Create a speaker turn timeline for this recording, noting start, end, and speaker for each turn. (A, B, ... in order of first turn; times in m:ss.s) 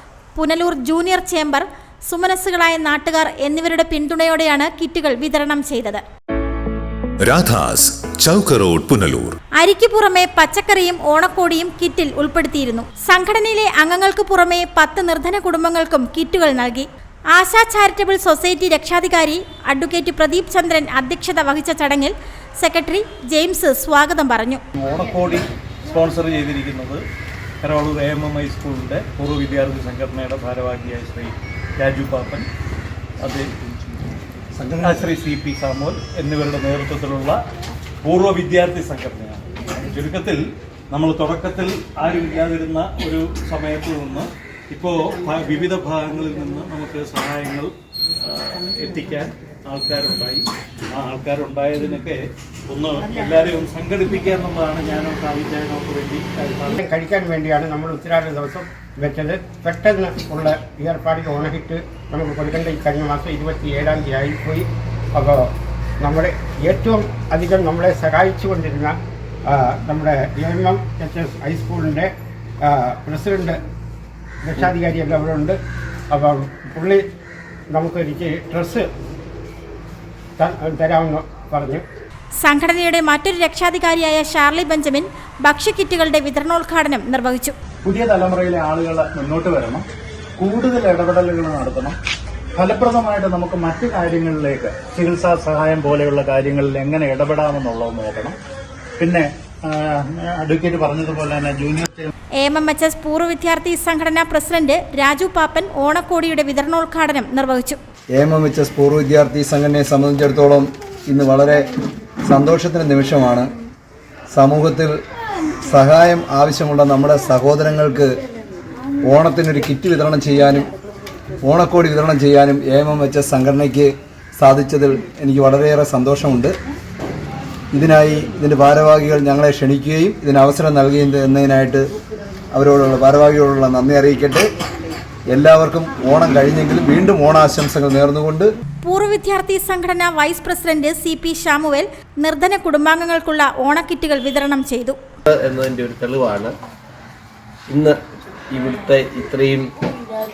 0:00.4-0:06.0 A
0:07.2-0:09.4 B
0:09.6-0:24.6 A
0:24.8-0:27.0 C
0:27.6-0:32.5 C
0:33.2-0:33.5 C
0:34.7-0:37.4 C
0:38.0-0:56.6 C
0:56.5-1:05.4 D
1:06.0-1:09.0 D
1:09.5-1:12.1 D
1:12.6-1:13.6 D
1:14.4-1:15.6 D
1:16.1-1:17.0 D
1:17.7-1:18.8 D
1:20.4-1:21.8 D
1:22.4-1:27.5 A
1:27.8-1:29.8 E
1:30.4-1:31.9 E
1:32.6-1:38.4 E
1:39.0-1:42.1 E
1:42.4-1:47.8 A
1:48.2-1:51.6 F
1:52.3-1:53.4 F
1:54.3-1:54.9 F
1:55.6-1:58.1 F
1:59.0-2:00.7 F
2:01.4-2:06.5 F
2:07.7-2:11.8 F
2:12.5-2:14.4 F
2:15.3-2:18.5 F
2:18.8-2:25.0 A
2:25.2-2:26.5 G
2:27.7-2:28.0 G
2:28.5-2:29.7 G